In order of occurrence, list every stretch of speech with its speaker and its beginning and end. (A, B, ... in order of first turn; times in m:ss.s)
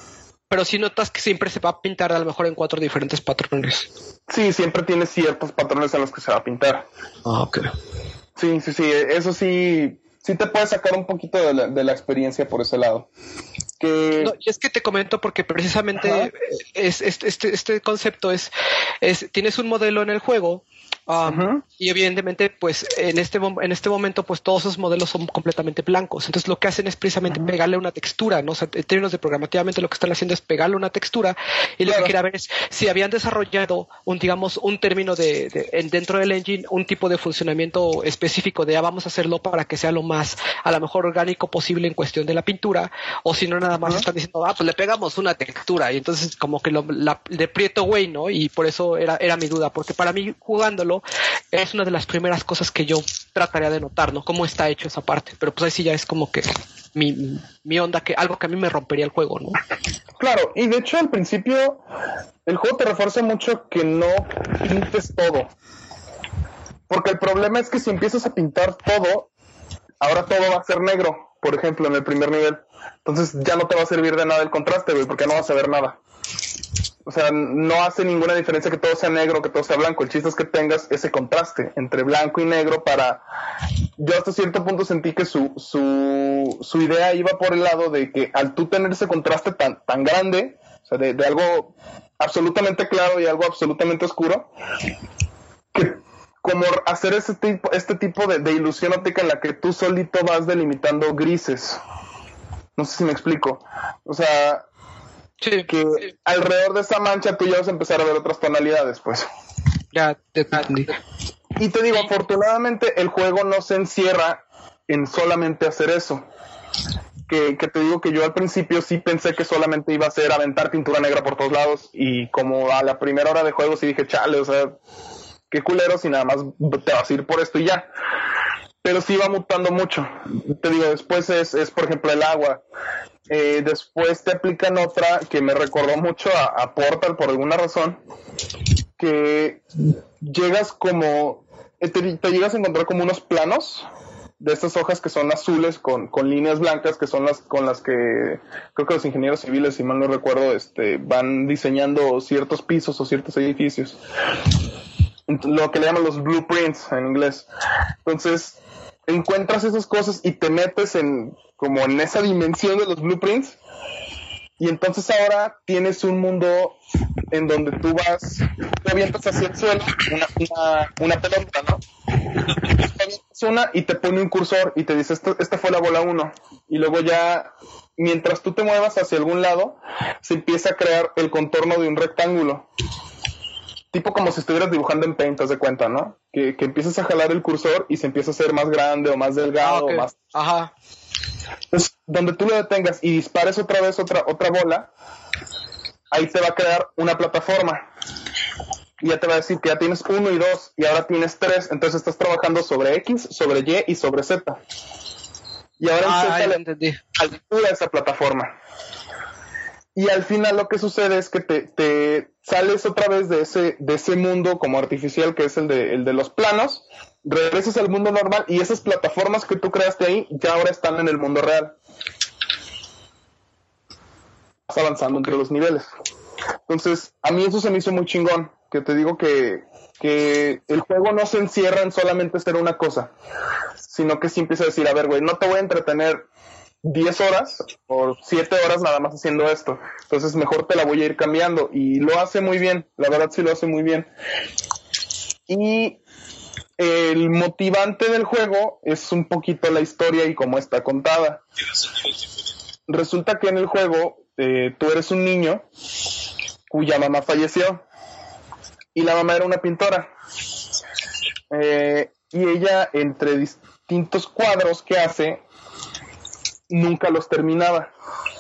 0:00.5-0:03.9 A
0:04.3-0:06.9 B
0:07.3-0:07.7 A
0:08.4-0:13.1 B
0:13.8-0:14.4 B
0:14.2-0:18.5 A
0:16.0-0:16.3 B
0:19.0-0:59.6 A
0:21.3-0:21.6 B
0:31.8-0:32.1 B
1:00.2-1:01.8 B
1:02.5-1:05.5 B
1:06.9-1:09.3 B
1:10.0-1:16.0 B
1:17.1-1:23.2 B
1:24.0-1:34.5 B
1:35.7-1:41.8 B
1:42.8-1:44.6 B
1:45.4-1:45.7 A
1:45.7-1:49.3 B
1:49.9-1:50.9 A
1:51.6-1:56.3 B
1:57.3-2:04.8 B
2:05.5-2:07.9 B
2:08.8-2:12.6 B
2:13.3-2:18.0 B
2:19.0-2:19.6 B
2:20.2-2:23.9 B
2:24.4-2:34.0 B
2:35.3-2:37.5 B
2:38.0-2:43.6 B
2:44.6-2:46.8 B
2:47.3-2:51.8 B
2:52.4-3:02.7 B
3:03.9-3:10.2 B
3:09.6-3:10.7 A
3:11.7-3:14.9 B
3:16.1-3:17.9 B
3:19.0-3:24.6 B
3:25.8-3:26.6 B
3:26.0-3:27.0 A
3:27.2-3:28.5 B
3:30.0-3:41.8 B
3:44.7-3:45.9 B
3:46.7-3:53.1 B
3:53.9-3:56.3 B
3:56.8-4:04.1 B
4:05.5-4:06.0 B
4:06.8-4:11.4 B
4:12.9-4:15.6 B
4:16.7-4:17.8 B
4:19.0-4:20.1 B
4:21.5-4:25.4 B
4:26.7-4:27.9 B